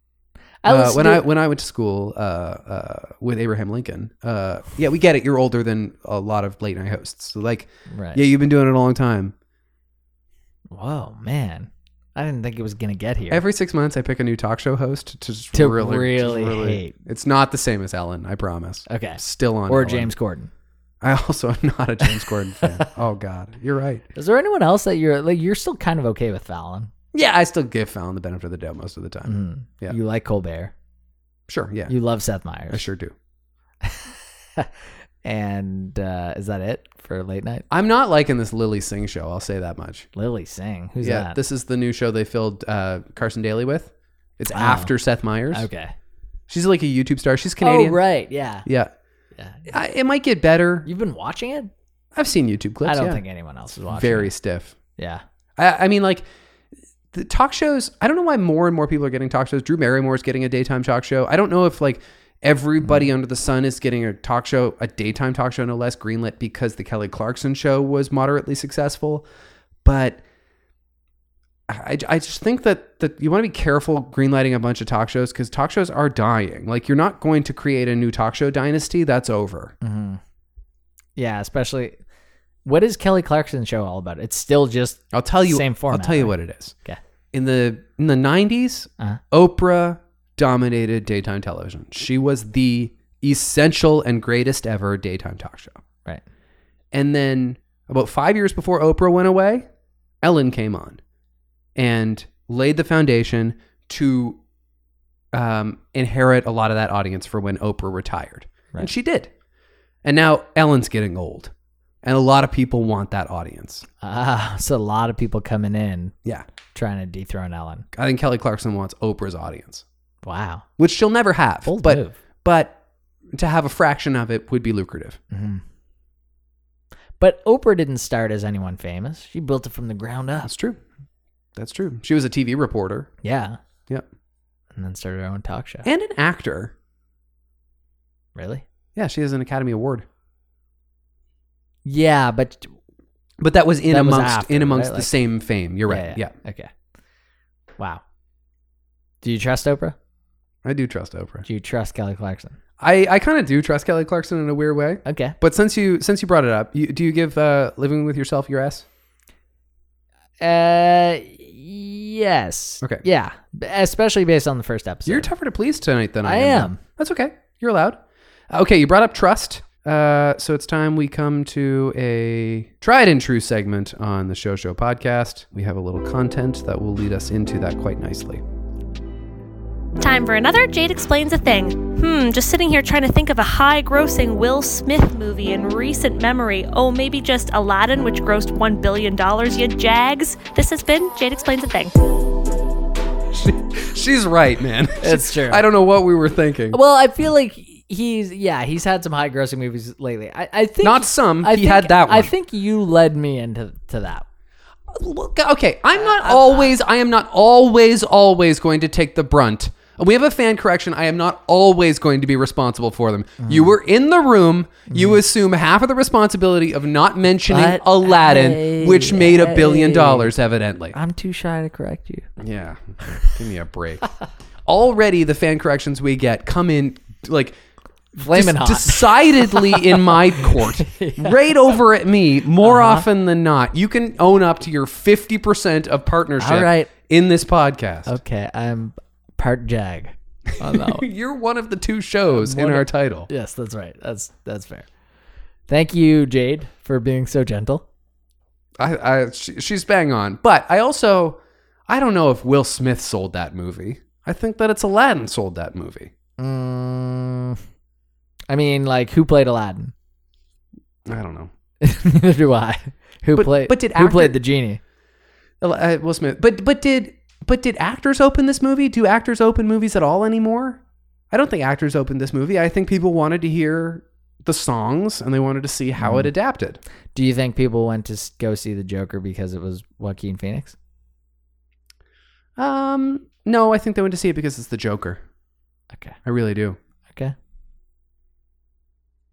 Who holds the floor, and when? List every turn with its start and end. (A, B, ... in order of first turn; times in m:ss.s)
0:00.6-0:01.2 A
0:00.6-0:09.3 B
0:07.9-0:08.2 A
0:10.7-0:13.4 A
0:13.3-0:20.1 B
0:15.5-0:17.0 A
0:18.9-0:20.5 A
0:21.0-0:24.0 B
0:22.6-0:22.9 A
0:24.1-0:26.9 A
0:27.1-0:30.0 B
0:29.2-0:30.7 A
0:31.5-0:31.9 B
0:31.9-0:32.8 A
0:32.7-0:33.1 B
0:33.8-0:34.7 A
0:35.2-0:37.6 A
0:37.7-0:40.1 B
0:40.2-0:41.4 A
0:41.0-0:45.7 B
0:44.5-0:44.9 A
0:45.5-0:45.9 A
0:46.5-0:48.0 B
0:47.6-0:48.6 A
0:48.6-0:48.9 B
0:49.3-0:49.7 A
0:49.7-0:50.9 B
0:50.9-0:51.7 A
0:52.1-0:53.2 B
0:52.8-0:54.3 A
0:53.9-0:54.7 B
0:55.0-0:55.2 A
0:55.6-0:56.3 B
0:57.1-1:09.3 B
1:09.8-1:10.2 B
1:11.7-1:19.7 B
1:19.8-1:20.2 A
1:21.2-1:22.0 A
1:22.6-1:27.0 A
1:25.1-1:26.8 B
1:27.3-1:35.8 B
1:36.9-1:39.7 B
1:40.2-1:41.0 B
1:41.8-1:44.4 B
1:45.3-1:49.3 B
1:50.0-1:51.5 B
1:52.0-1:53.9 B
1:54.0-1:56.1 A
1:56.7-1:57.9 A
1:57.9-1:59.8 B
2:00.2-2:00.6 A
2:00.8-2:02.8 B
2:01.6-2:02.1 A
2:03.3-2:05.2 B
2:05.3-2:05.6 A
2:07.2-2:10.5 A
2:10.4-2:10.8 B
2:11.6-2:13.1 B
2:13.2-2:13.6 A
2:14.7-2:15.9 A
2:15.8-2:16.7 B
2:18.3-2:18.6 A
2:19.0-2:20.0 B
2:21.8-2:22.7 A
2:23.4-2:26.3 B
2:23.9-2:25.1 A
2:25.9-2:26.7 A
2:29.2-2:30.0 A
2:30.6-2:31.4 B
2:31.4-2:32.6 A
2:32.8-2:38.9 B
2:35.0-2:35.4 A
2:40.4-2:45.3 A
2:45.0-2:58.4 B
2:46.2-2:46.8 A
3:00.0-3:11.9 C
3:13.3-3:16.8 B
3:15.0-3:15.6 A
3:16.7-3:24.2 A
3:20.8-3:22.3 B
3:24.9-3:41.0 B
3:26.0-3:26.7 A
3:33.4-3:33.7 A
3:34.9-3:35.2 A
3:37.5-3:40.3 A
3:40.9-3:42.3 A
3:42.4-3:44.1 B
3:43.0-3:43.3 A
3:44.6-3:47.6 B
3:48.1-3:58.2 B
3:48.2-3:51.5 A
3:52.6-3:53.0 A
3:56.4-3:56.9 A
3:58.0-4:01.0 A
4:00.6-4:03.3 B
4:02.3-4:04.9 A
4:05.7-4:07.8 A
4:08.8-4:16.1 B
4:16.4-4:17.6 A
4:18.5-4:19.9 A
4:21.0-4:21.5 B
4:21.8-4:24.8 A
4:23.4-4:24.4 B
4:25.6-4:36.8 B
4:36.0-4:36.3 A
4:37.1-4:40.8 A
4:42.6-4:45.2 B
4:46.2-4:46.8 B